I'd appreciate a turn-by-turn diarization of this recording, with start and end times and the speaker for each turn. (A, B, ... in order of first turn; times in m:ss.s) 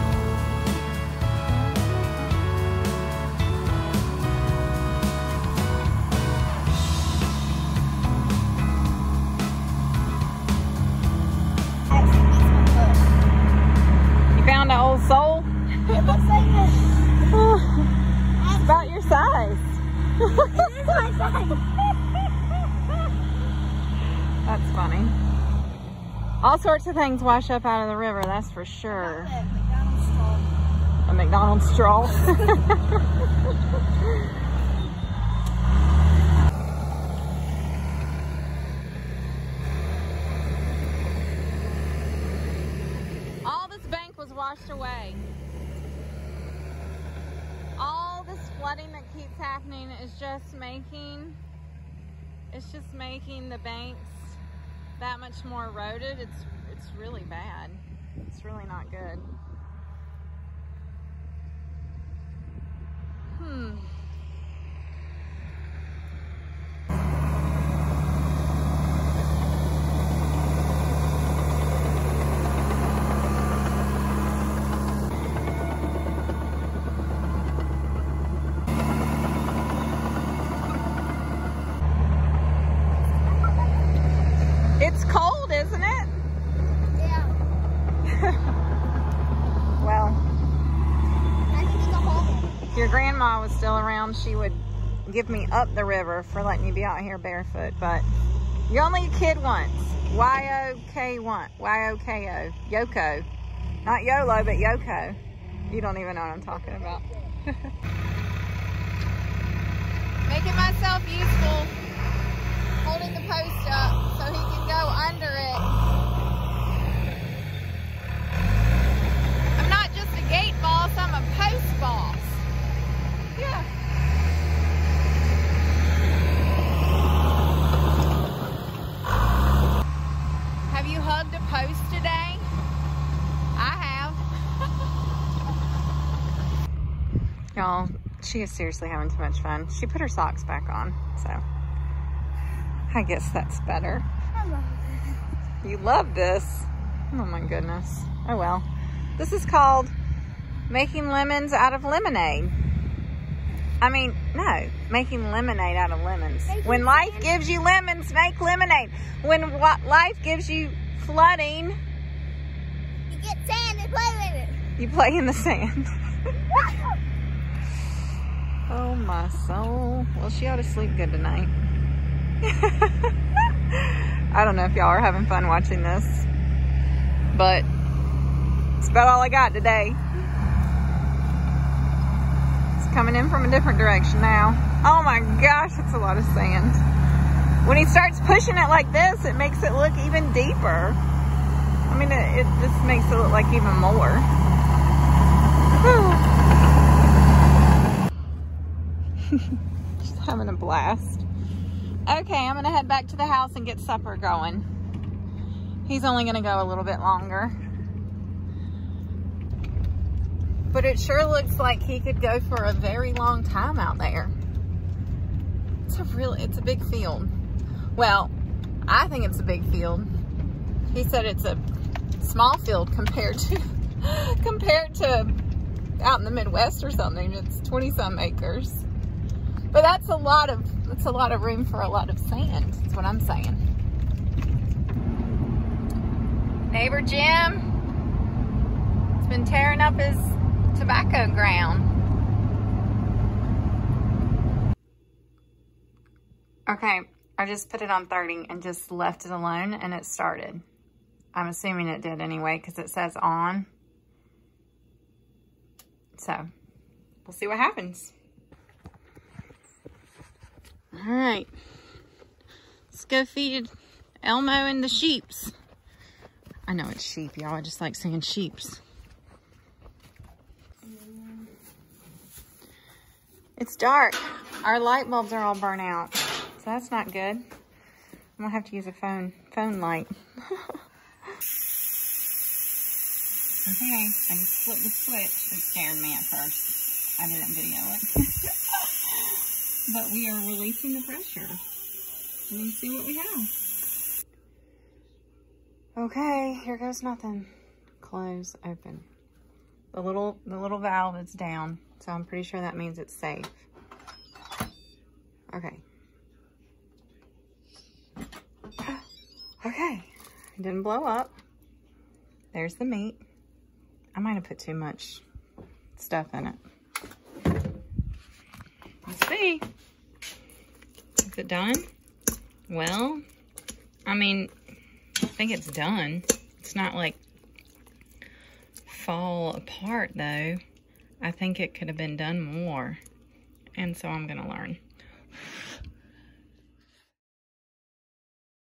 0:11.9-0:13.1 A
0:14.3-0:16.1 B
0:15.9-0:16.9 A
0:17.3-0:17.9 B
0:18.4-0:19.0 A
0:18.6-0:21.3 B
0:20.3-0:21.6 A
0:24.4-0:25.2 B
0:26.4-0:29.3 B
0:28.9-0:30.5 A
0:31.1-0:33.0 B
0:32.2-0:32.5 A
0:43.4-0:45.2 B
0:47.8-0:51.4 B
0:52.5-0:54.4 B
0:55.0-0:59.3 B
1:03.3-1:03.9 B
1:24.8-1:26.1 B
1:27.0-1:27.3 A
1:28.1-1:28.5 B
1:29.8-1:30.2 B
1:31.5-1:32.6 A
1:32.8-1:38.1 B
1:38.7-1:43.3 B
1:43.8-1:47.6 B
1:50.3-1:51.8 B
1:52.8-1:55.7 B
1:59.6-2:02.4 B
2:03.4-2:03.7 B
2:10.7-2:12.5 B
2:13.6-2:14.2 B
2:17.6-2:21.4 B
2:22.9-2:24.1 B
2:24.3-2:25.2 A
2:25.6-2:29.9 B
2:30.7-2:32.6 B
2:33.8-2:41.8 B
2:36.5-2:37.3 A
2:43.1-2:44.6 A
2:44.8-2:45.9 B
2:46.5-2:47.0 A
2:48.7-2:51.5 B
2:52.4-2:53.1 B
2:53.7-2:56.3 B
2:57.3-2:57.7 B
2:58.8-3:00.0 B
3:02.8-3:06.8 B
3:07.6-3:11.0 B
3:11.9-3:14.3 B
3:15.8-3:16.3 B
3:19.3-3:21.2 B
3:22.1-3:24.7 B
3:25.9-3:27.6 B
3:30.7-3:34.3 B
3:35.9-3:37.3 B
3:38.0-3:38.3 B
3:38.9-3:40.1 B
3:40.9-3:41.6 B
3:42.2-3:45.4 B
3:46.0-3:48.9 B
3:49.7-3:53.6 B
3:56.7-3:57.7 B
3:59.2-4:01.9 B
4:06.7-4:10.6 B
4:11.4-4:13.7 B
4:16.2-4:16.5 B
4:17.2-4:18.1 B
4:20.9-4:21.5 B
4:22.9-4:23.7 B
4:24.2-4:25.5 B
4:26.7-4:28.8 B
4:33.6-4:37.4 B
4:38.4-4:40.8 B
4:43.7-4:51.6 B
4:52.5-4:53.5 B
4:56.0-4:59.1 B
4:59.9-5:03.7 B
5:05.5-5:05.8 B
5:09.6-5:11.4 B
5:12.5-5:13.2 B
5:14.2-5:15.2 B
5:16.0-5:16.6 B
5:19.1-5:19.6 B
5:21.2-5:21.9 B
5:22.7-5:23.2 B
5:24.1-5:24.5 B
5:25.3-5:27.2 B
5:28.9-5:30.6 B
5:31.2-5:33.0 B
5:33.8-5:34.8 B